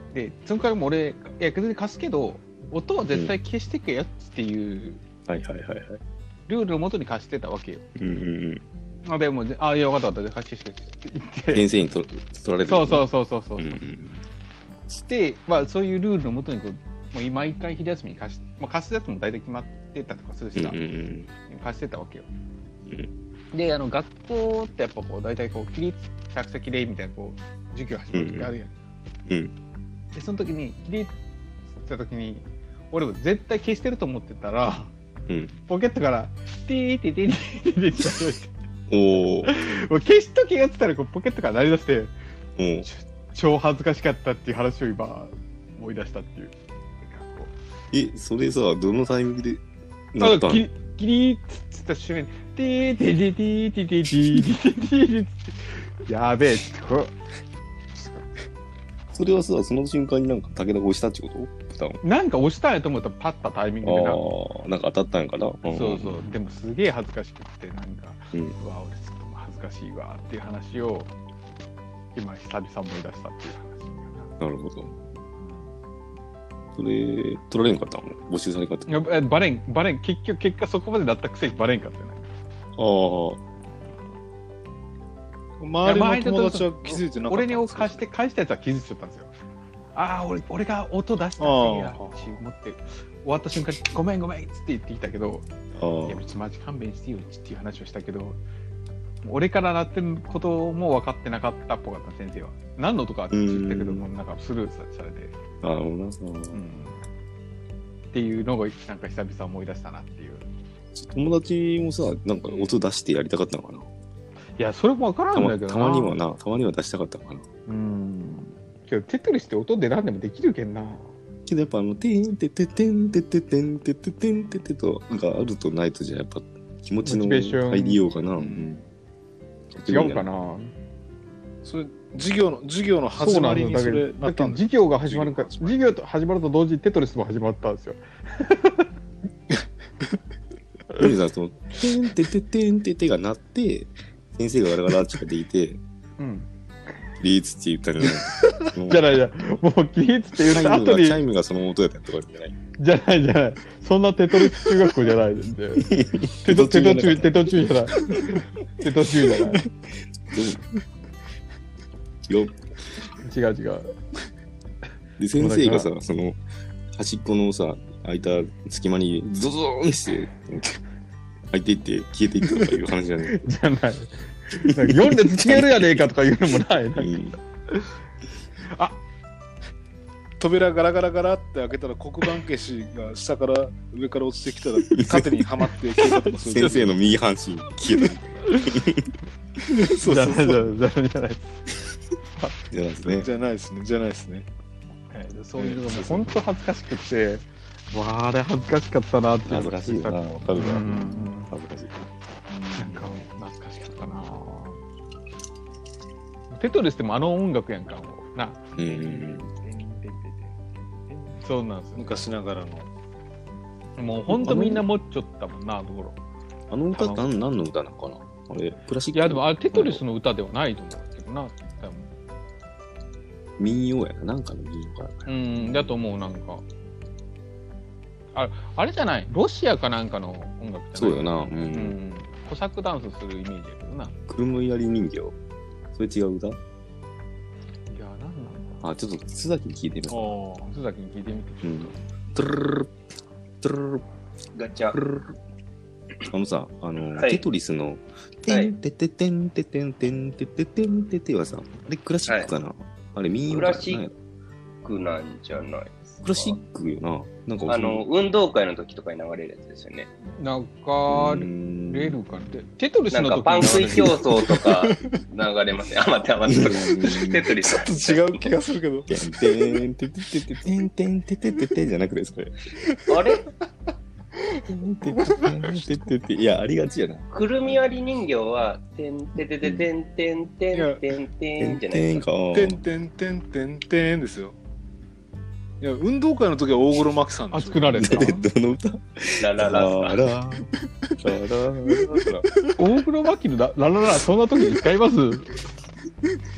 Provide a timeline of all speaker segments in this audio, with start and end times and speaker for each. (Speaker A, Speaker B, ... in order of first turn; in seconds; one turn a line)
Speaker A: 0.1-5.0
Speaker B: 5.3-6.0
Speaker A: 6.5-7.8
Speaker B: 8.0-8.6
Speaker A: 9.1-11.6
Speaker B: 11.5-14.2
Speaker A: 12.7-13.8
Speaker A: 14.9-20.8
Speaker B: 20.6-21.3
Speaker A: 21.4-22.3
Speaker B: 22.9-23.1
Speaker A: 23.5-28.8
Speaker B: 28.1-28.5
Speaker A: 30.1-31.1
Speaker A: 31.8-34.9
Speaker B: 35.3-35.5
Speaker A: 35.7-38.5
Speaker B: 38.9-39.5
Speaker A: 39.5-42.1
Speaker B: 42.6-42.9
Speaker A: 42.8-47.5
Speaker B: 47.9-50.7
Speaker A: 50.2-57.1
Speaker A: 58.0-58.3
Speaker B: 59.1-62.0
Speaker A: 62.0-64.2
Speaker B: 63.8-66.2
Speaker A: 65.7-71.1
Speaker A: 72.1-74.3
Speaker B: 74.4-75.0
Speaker A: 75.4-75.7
Speaker B: 76.8-79.0
Speaker A: 78.9-82.3
Speaker B: 82.8-83.4
Speaker C: 85.6-88.1
Speaker A: 85.8-89.3
Speaker A: 89.9-95.5
Speaker C: 91.4-92.4
Speaker B: 95.8-96.2
Speaker A: 96.0-98.4
Speaker A: 99.2-105.3
Speaker B: 103.3-104.1
Speaker B: 105.6-106.6
Speaker A: 106.5-107.0
Speaker A: 108.1-110.5
Speaker B: 111.0-113.9
Speaker A: 112.5-112.9
Speaker A: 114.6-116.2
Speaker B: 115.3-117.5
Speaker A: 117.7-121.1
Speaker B: 121.5-128.8
Speaker A: 127.0-128.0
Speaker C: 128.3-128.8
Speaker B: 129.7-130.3
Speaker A: 129.9-130.7
Speaker C: 131.6-135.9
Speaker A: 133.2-138.9
Speaker B: 141.0-145.8
Speaker A: 146.2-146.5
Speaker B: 147.2-149.1
Speaker A: 148.5-151.2
Speaker B: 150.5-152.6
Speaker A: 152.8-159.7
Speaker B: 155.8-157.7
Speaker B: 160.3-160.6
Speaker B: 162.3-162.6
Speaker A: 163.2-163.9
Speaker B: 165.2-166.4
Speaker A: 165.4-165.9
Speaker B: 167.0-170.8
Speaker B: 171.5-173.5
Speaker A: 173.3-178.0
Speaker B: 174.7-176.0
Speaker B: 177.0-177.4
Speaker A: 178.6-179.0
Speaker C: 180.4-187.0
Speaker B: 184.9-185.3
Speaker B: 186.0-189.1
Speaker A: 188.5-188.7
Speaker C: 189.7-190.7
Speaker A: 190.0-191.6
Speaker B: 192.7-193.3
Speaker C: 193.0-194.5
Speaker A: 195.1-201.5
Speaker C: 195.6-196.2
Speaker B: 199.5-201.9
Speaker C: 202.5-203.1
Speaker A: 202.8-204.8
Speaker A: 206.5-212.3
Speaker B: 208.8-209.5
Speaker C: 211.9-212.9
Speaker A: 214.0-216.2
Speaker B: 214.3-214.8
Speaker B: 216.7-220.0
Speaker A: 216.9-217.3
Speaker A: 219.1-222.1
Speaker B: 223.6-226.0
Speaker A: 225.3-226.7
Speaker A: 228.3-234.2
Speaker B: 230.9-232.0
Speaker B: 234.3-235.3
Speaker B: 235.9-236.6
Speaker A: 237.9-238.8
Speaker B: 238.8-240.3
Speaker C: 240.1-240.7
Speaker A: 240.6-242.0
Speaker B: 241.6-242.9
Speaker B: 243.6-244.0
Speaker D: 244.6-245.0
Speaker B: 244.9-245.3
Speaker B: 246.3-254.1
Speaker D: 247.1-247.4
Speaker D: 253.5-254.1
Speaker D: 254.8-256.6
Speaker B: 256.2-258.1
Speaker D: 257.7-260.1
Speaker A: 260.4-264.2
Speaker B: 261.1-262.2
Speaker D: 263.1-268.5
Speaker B: 263.6-264.1
Speaker C: 264.7-265.0
Speaker B: 266.5-267.5
Speaker C: 266.7-269.8
Speaker B: 269.1-272.6
Speaker C: 272.9-273.2
Speaker D: 273.1-273.4
Speaker B: 274.7-277.3
Speaker C: 275.1-275.9
Speaker D: 277.3-282.3
Speaker B: 279.6-279.9
Speaker C: 280.7-281.0
Speaker B: 281.6-282.8
Speaker C: 282.5-284.6
Speaker C: 285.8-288.2
Speaker A: 287.5-288.4
Speaker B: 287.9-290.7
Speaker D: 289.4-290.2
Speaker B: 291.2-292.5
Speaker A: 292.8-295.6